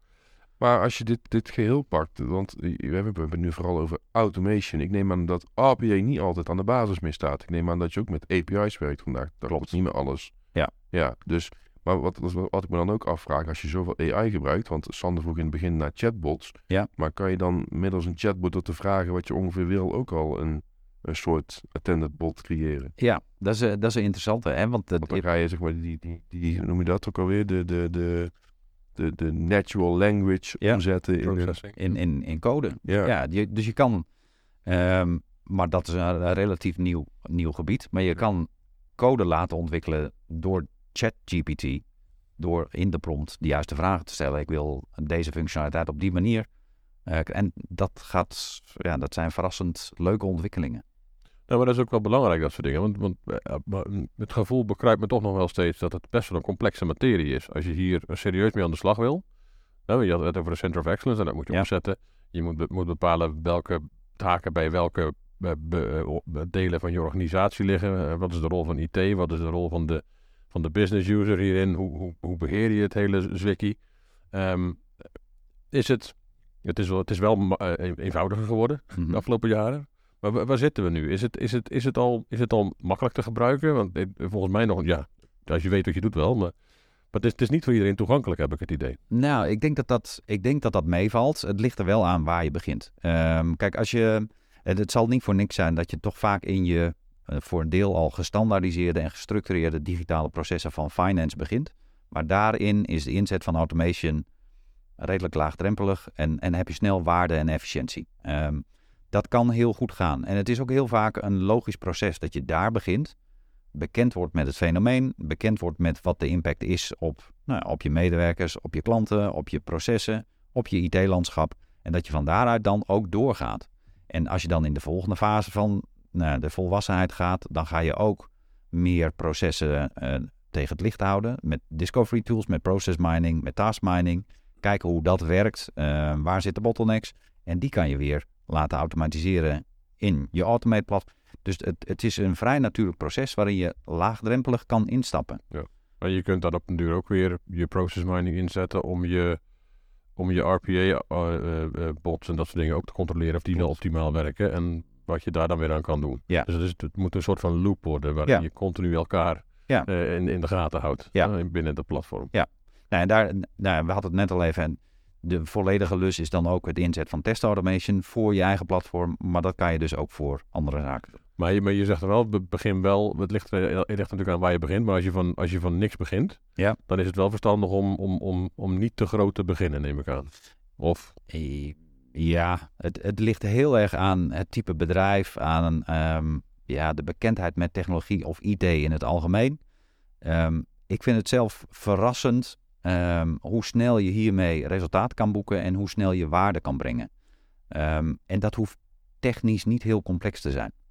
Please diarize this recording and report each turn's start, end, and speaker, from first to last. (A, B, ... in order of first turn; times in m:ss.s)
0:00.6-0:22.9 A
0:23.0-0:25.2 B
0:25.0-0:28.3 A
0:29.0-0:31.6 A
0:31.2-0:31.8 C
0:31.8-0:34.1 B
0:32.9-0:33.1 A
0:34.7-0:41.8 B
0:42.4-0:46.5 B
0:47.1-0:50.8 B
0:51.5-0:59.2 C
0:59.9-1:13.8 C
1:14.3-1:15.1 C
1:15.7-1:26.5 C
1:27.1-1:29.0 C
1:29.1-1:44.2 B
1:45.0-1:53.2 B
1:53.7-2:25.4 B
2:25.5-2:29.4 C
2:30.2-2:42.3 C
2:42.3-2:51.2 B
2:51.4-3:01.1 C
3:01.3-3:09.6 B
3:10.2-3:17.1 B
3:17.7-3:20.7 B